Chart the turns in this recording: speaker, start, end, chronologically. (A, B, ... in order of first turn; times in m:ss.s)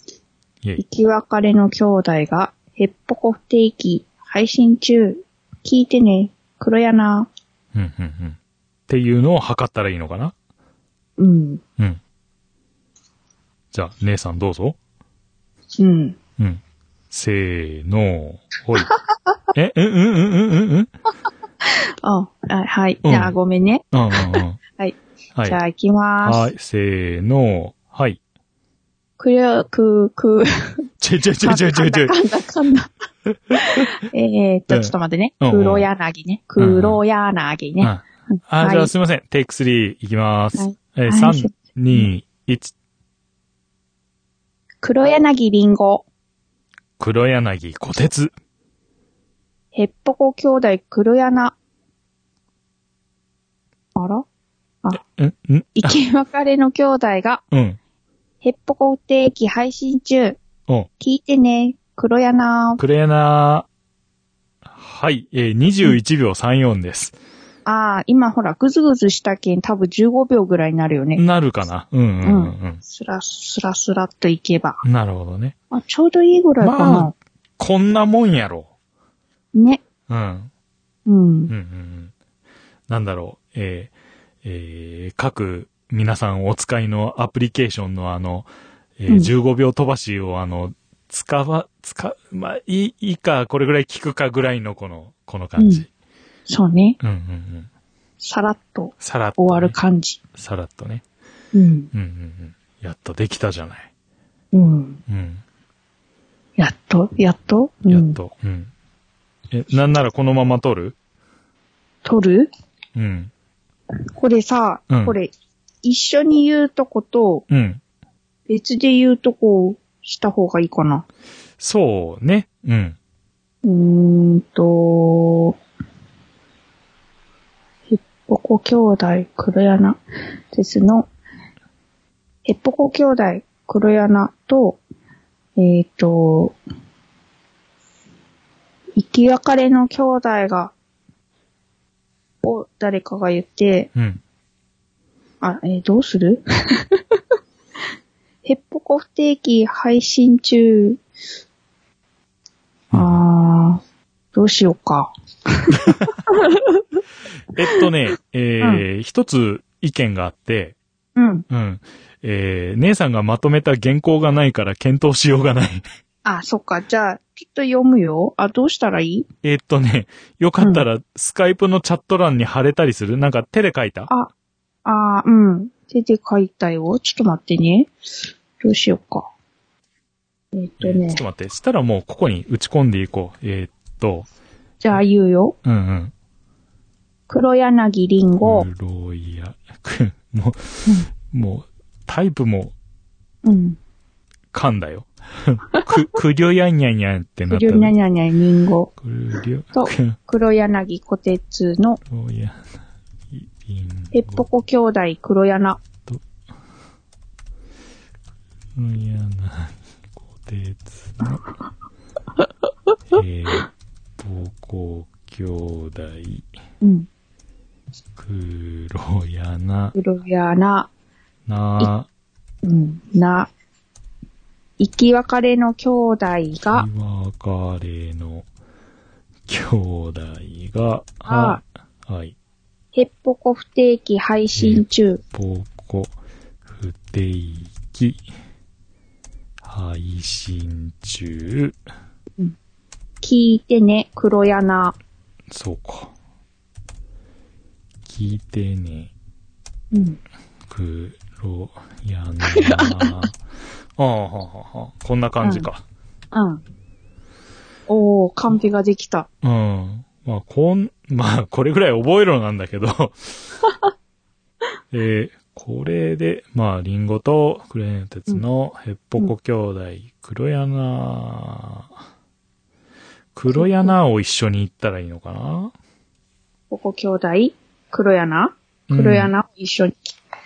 0:00.8-0:07.3 A
0:07.7-0:10.3 B
0:11.2-0:11.6 A
0:13.7-0:14.8 B
0:15.8-0:16.2 A
0:16.4-0:18.9 B
0:19.5-0:20.9 B
0:21.6-0:26.5 A
0:23.0-0:23.4 B
0:23.9-0:24.6 B
0:26.2-0:28.2 B
0:29.2-0:30.9 A
0:31.0-0:32.1 B
0:31.4-0:32.9 A
0:33.3-0:33.9 B
0:33.5-0:38.9 A
0:34.7-0:35.9 B
0:36.6-0:37.0 B
0:37.8-0:42.7 B
0:40.6-0:42.1 A
0:44.8-0:46.0 A
0:47.0-0:48.3 B
0:49.7-0:51.5 A
0:54.0-0:54.2 A
0:55.0-0:56.0 B
0:55.8-0:57.4 A
0:57.5-0:57.8 B
0:58.4-1:00.4 A
1:01.0-1:02.8 A
1:02.8-1:03.7 B
1:04.6-1:07.1 B
1:07.6-1:11.2 A
1:11.2-1:12.8 B
1:12.2-1:14.8 A
1:14.8-1:15.5 B
1:15.7-1:17.1 A
1:16.6-1:18.7 B
1:19.5-1:19.8 A
1:20.1-1:20.5 B
1:21.0-1:21.5 A
1:21.5-1:22.1 B
1:22.9-1:23.9 B
1:24.4-1:28.5 B
1:29.0-1:35.9 B
1:35.6-1:35.9 A
1:36.5-1:37.0 A
1:37.0-1:37.7 B
1:38.2-1:40.2 A
1:39.0-1:39.8 B
1:40.4-1:41.0 B
1:41.5-1:41.9 A
1:41.9-1:43.9 B
1:44.5-1:45.0 A
1:45.1-1:45.4 B
1:46.6-1:48.2 A
1:47.9-1:48.7 B
1:49.5-1:51.0 B
1:52.0-1:52.5 A
1:52.9-1:53.3 B
1:54.2-1:55.3 A
1:54.9-1:55.1 B
1:55.8-1:57.4 A
1:57.5-1:57.8 B
1:58.5-2:01.0 A
2:01.6-2:03.0 B
2:03.6-2:05.6 A
2:07.9-2:10.0 A
2:10.5-2:11.1 A
2:12.4-2:14.8 A
2:15.6-2:16.6 A
2:19.0-2:20.7 A
2:22.4-2:23.9 A
2:23.9-2:24.2 B
2:25.4-2:27.0 A
2:28.4-2:31.0 A
2:32.9-2:33.2 B
2:32.9-2:33.8 A
2:34.3-2:36.8 A
2:35.7-2:36.2 B
2:37.5-2:40.8 B
2:41.2-2:41.4 A
2:41.5-2:45.8 B
2:46.2-2:49.3 A
2:49.4-2:54.1 B
2:50.6-2:50.9 A
2:54.8-2:57.9 A
2:58.6-2:59.3 A
3:00.5-3:01.2 A
3:00.8-3:04.3 B
3:04.8-3:05.6 A
3:05.6-3:06.1 B
3:07.3-3:08.7 A
3:08.4-3:12.7 B
3:13.4-3:13.8 A
3:14.5-3:17.9 B
3:17.5-3:18.9 A
3:19.0-3:20.2 B
3:19.7-3:22.0 A
3:22.1-3:22.6 B
3:23.3-3:24.4 B
3:24.1-3:25.8 A
3:28.8-3:31.4 B
3:33.1-3:36.5 B
3:36.8-3:37.1 A
3:38.2-3:39.9 B
3:39.9-3:40.9 A
3:41.5-3:42.1 B
3:42.6-3:43.5 A
3:44.8-3:46.9 A
3:46.7-3:48.4 B
3:49.5-3:52.3 B
3:51.3-3:51.6 A
3:52.9-3:55.2 A
3:54.6-3:56.1 B
3:56.7-3:58.2 B
3:59.6-4:01.8 B
4:03.2-4:05.0 A
4:05.5-4:06.1 B
4:08.0-4:09.1 B
4:09.9-4:10.2 A
4:10.7-4:13.4 B
4:12.5-4:13.3 A
4:14.0-4:15.8 B
4:15.4-4:15.7 A
4:16.3-4:16.6 A
4:17.9-4:19.3 A
4:19.4-4:23.4 B
4:24.9-4:31.9 B
4:33.4-4:35.7 B
4:33.5-4:34.0 A
4:36.7-4:40.1 A
4:38.9-4:39.3 B